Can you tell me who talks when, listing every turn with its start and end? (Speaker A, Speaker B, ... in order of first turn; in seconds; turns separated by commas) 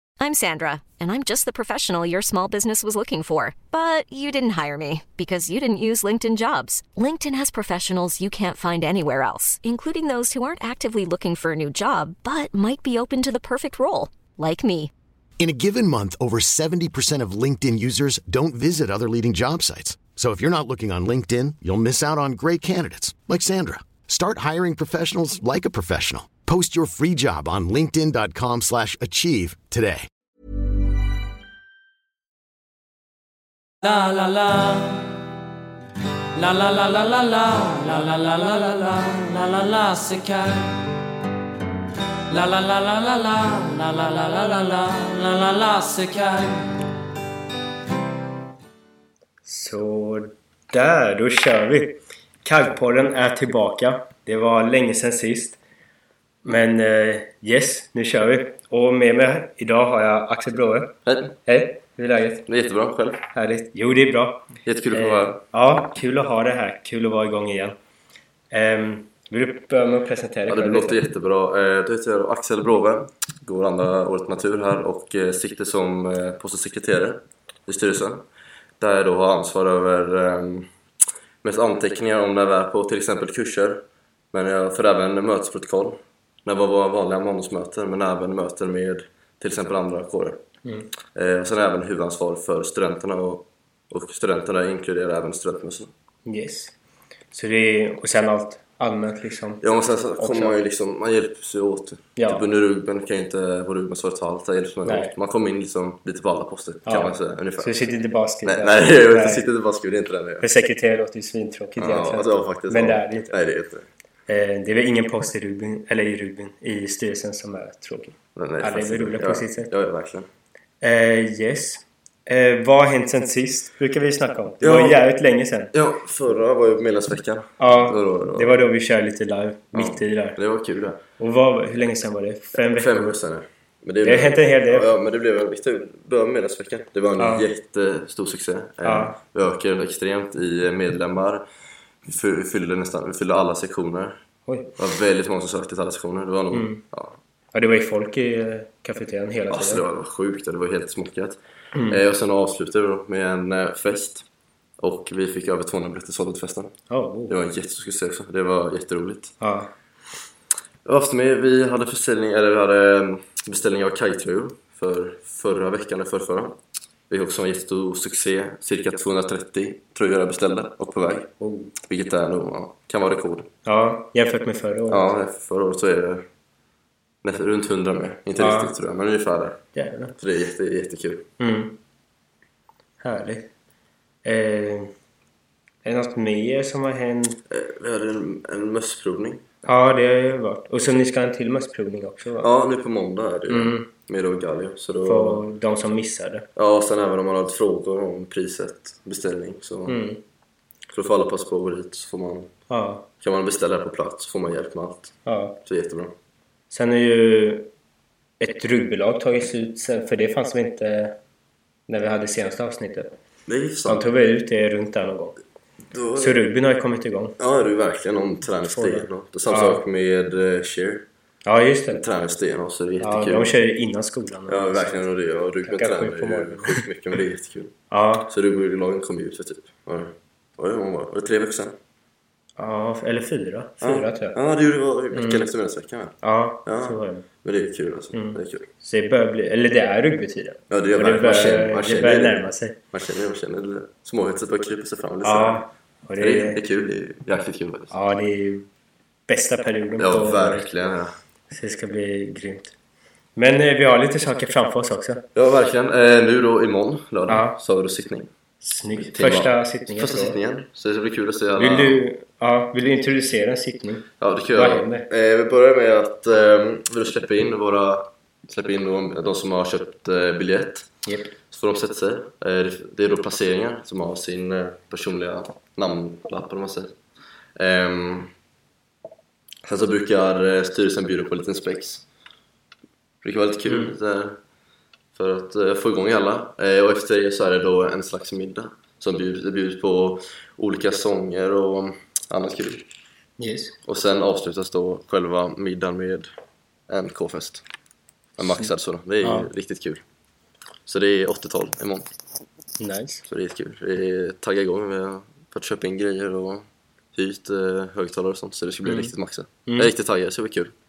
Speaker A: 0.2-14.9, Speaker B: 15.4-30.1, Speaker C: 33.8-35.1, Speaker C: 36.4-40.8, Speaker C: 42.3-46.8, Speaker D: 49.4-55.6, Speaker D: 56.4-62.5, Speaker E: 61.0-61.4, Speaker E: 62.5-63.2, Speaker D: 63.3-67.7, Speaker E: 64.6-65.4, Speaker D: 68.5-71.0, Speaker E: 70.5-78.2, Speaker E: 78.8-80.7, Speaker E: 81.4-90.4, Speaker E: 91.1-95.9, Speaker D: 96.2-96.7, Speaker D: 97.3-99.6, Speaker E: 99.6-107.8, Speaker D: 100.2-100.6, Speaker D: 102.2-102.4, Speaker D: 104.8-105.1, Speaker D: 106.8-109.5, Speaker E: 108.4-110.5, Speaker D: 110.4-113.3, Speaker E: 111.8-113.8, Speaker D: 114.3-119.7, Speaker E: 118.3-120.3, Speaker D: 120.8-125.7, Speaker E: 124.6-125.0, Speaker E: 125.7-128.7, Speaker D: 127.6-130.4, Speaker E: 129.7-131.0, Speaker D: 131.2-133.2, Speaker E: 132.6-141.4, Speaker D: 134.0-134.9, Speaker D: 137.2-137.5, Speaker D: 138.8-139.2, Speaker E: 142.0-144.2, Speaker D: 144.4-144.7, Speaker E: 144.8-147.2, Speaker D: 146.5-146.8, Speaker D: 147.5-149.8, Speaker E: 149.5-154.2, Speaker E: 154.8-156.7, Speaker D: 156.9-157.3, Speaker E: 157.3-159.3, Speaker D: 159.4-159.7, Speaker E: 160.8-166.6, Speaker E: 167.1-171.3, Speaker D: 171.4-171.7, Speaker E: 171.9-173.5, Speaker D: 173.6-175.1, Speaker E: 174.9-176.2, Speaker E: 177.2-179.6, Speaker D: 178.4-178.7, Speaker D: 179.7-180.1, Speaker E: 180.2-181.3, Speaker D: 181.4-181.8, Speaker D: 183.0-183.5, Speaker D: 184.2-184.9, Speaker D: 185.8-187.4, Speaker E: 187.5-189.4, Speaker D: 189.6-192.5, Speaker E: 192.4-195.4, Speaker D: 193.5-193.9, Speaker D: 195.0-196.5, Speaker E: 196.6-200.1, Speaker D: 199.8-200.2, Speaker E: 200.9-202.5, Speaker D: 202.7-203.1, Speaker E: 203.2-206.1, Speaker D: 205.2-205.6, Speaker D: 206.7-207.7, Speaker D: 208.4-211.2, Speaker D: 211.9-213.1, Speaker E: 213.5-214.1, Speaker D: 213.8-215.4, Speaker E: 215.9-216.4, Speaker D: 216.2-217.4, Speaker E: 217.4-221.0, Speaker D: 218.6-219.8, Speaker D: 221.4-222.0, Speaker E: 222.0-223.6, Speaker D: 223.0-225.1, Speaker E: 224.5-227.7, Speaker D: 225.6-226.8, Speaker D: 227.9-228.3, Speaker E: 228.2-231.8, Speaker D: 232.6-234.4, Speaker E: 233.8-238.7, Speaker D: 235.1-235.5, Speaker D: 236.2-237.3, Speaker D: 238.1-242.8, Speaker E: 240.7-245.6, Speaker D: 245.2-246.6, Speaker E: 246.2-247.9, Speaker D: 247.9-248.7, Speaker D: 249.3-250.7, Speaker E: 250.0-251.1, Speaker D: 251.5-252.7, Speaker D: 253.3-255.2, Speaker E: 255.3-258.3, Speaker D: 257.3-257.6, Speaker D: 258.6-260.4, Speaker E: 259.0-262.0, Speaker D: 261.6-265.1, Speaker E: 264.2-270.9, Speaker D: 271.0-271.4, Speaker E: 271.5-276.9, Speaker E: 277.6-278.3, Speaker E: 279.6-282.1, Speaker E: 283.2-284.3, Speaker D: 283.7-283.9, Speaker E: 285.1-292.8, Speaker D: 293.4-293.8, Speaker E: 293.8-296.3, Speaker E: 296.9-297.6, Speaker E: 298.4-300.0, Speaker D: 299.2-299.5, Speaker E: 300.9-302.0, Speaker D: 302.8-303.2, Speaker E: 303.3-306.6, Speaker E: 307.1-310.7, Speaker D: 308.8-309.1, Speaker D: 309.6-309.9